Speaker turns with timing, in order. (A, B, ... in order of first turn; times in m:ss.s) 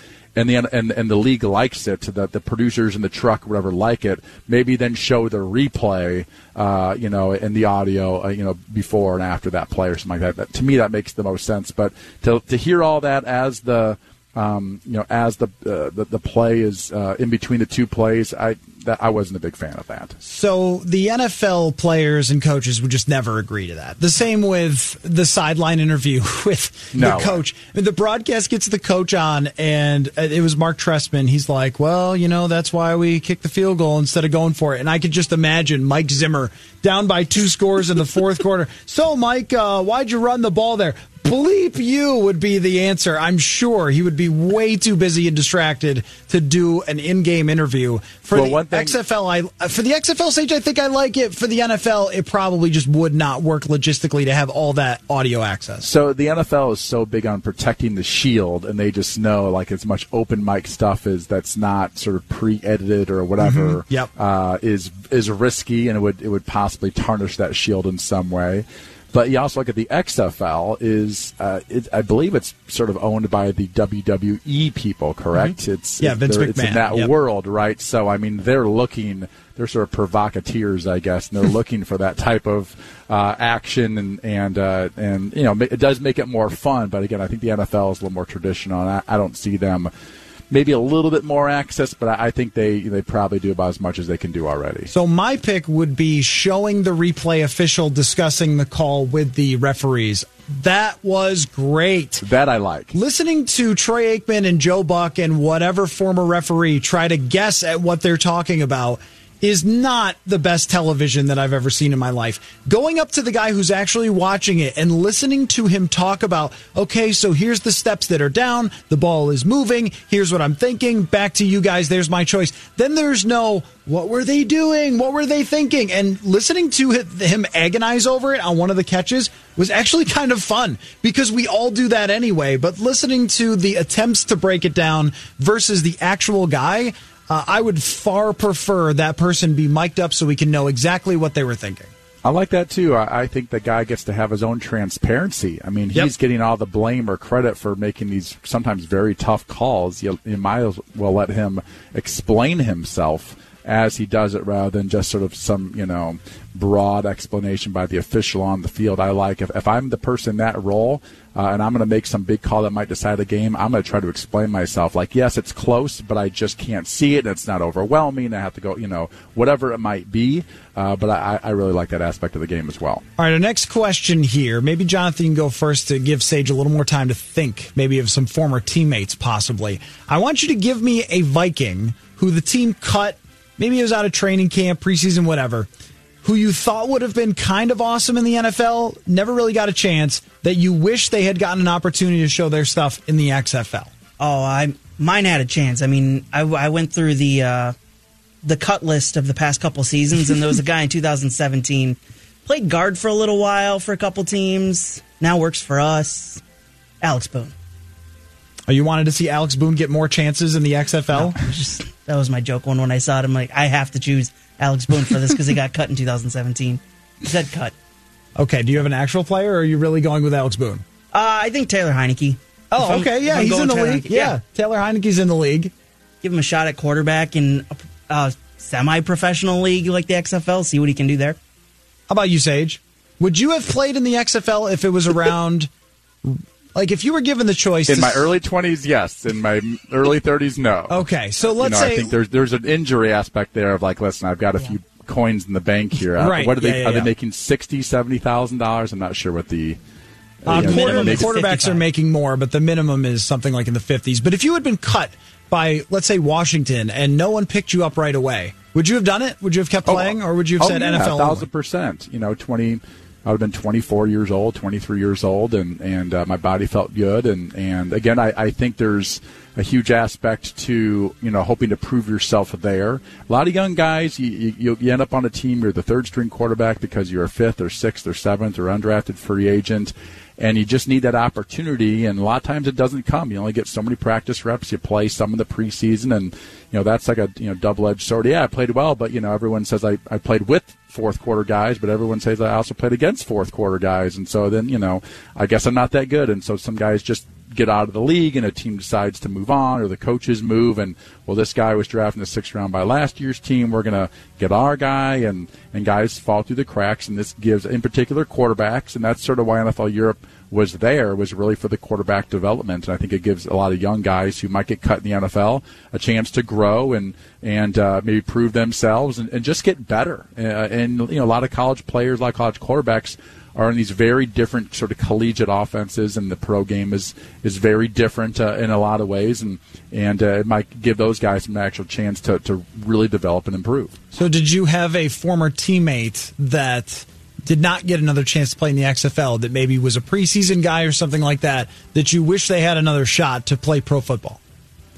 0:00.4-0:20.2 A
0:20.2-0:55.9 B
0:26.9-0:27.4 A
0:48.3-0:49.0 A
0:55.8-1:29.9 A
1:03.4-1:04.1 B
1:15.4-1:17.1 B
1:30.5-1:34.9 A
1:34.9-1:42.2 B
1:42.2-1:43.0 A
1:42.9-2:21.9 B
2:22.2-2:53.0 A
2:53.2-3:05.7 B
3:06.2-3:13.9 B
3:14.2-3:17.8 C
3:18.4-3:26.4 C
3:27.0-3:27.5 C
3:28.7-3:31.4 B
3:31.1-3:37.7 C
3:38.4-3:40.8 B
3:41.1-3:44.4 C
3:42.7-3:45.7 B
3:46.2-3:51.4 C
3:52.1-3:55.7 B
3:56.2-3:58.3 B
3:57.9-4:09.8 A
4:00.9-4:02.2 B
4:06.2-4:07.1 B
4:10.4-4:11.4 A
4:10.5-4:21.5 B
4:10.5-4:11.8 C
4:19.9-5:34.0 A
5:34.1-5:44.4 B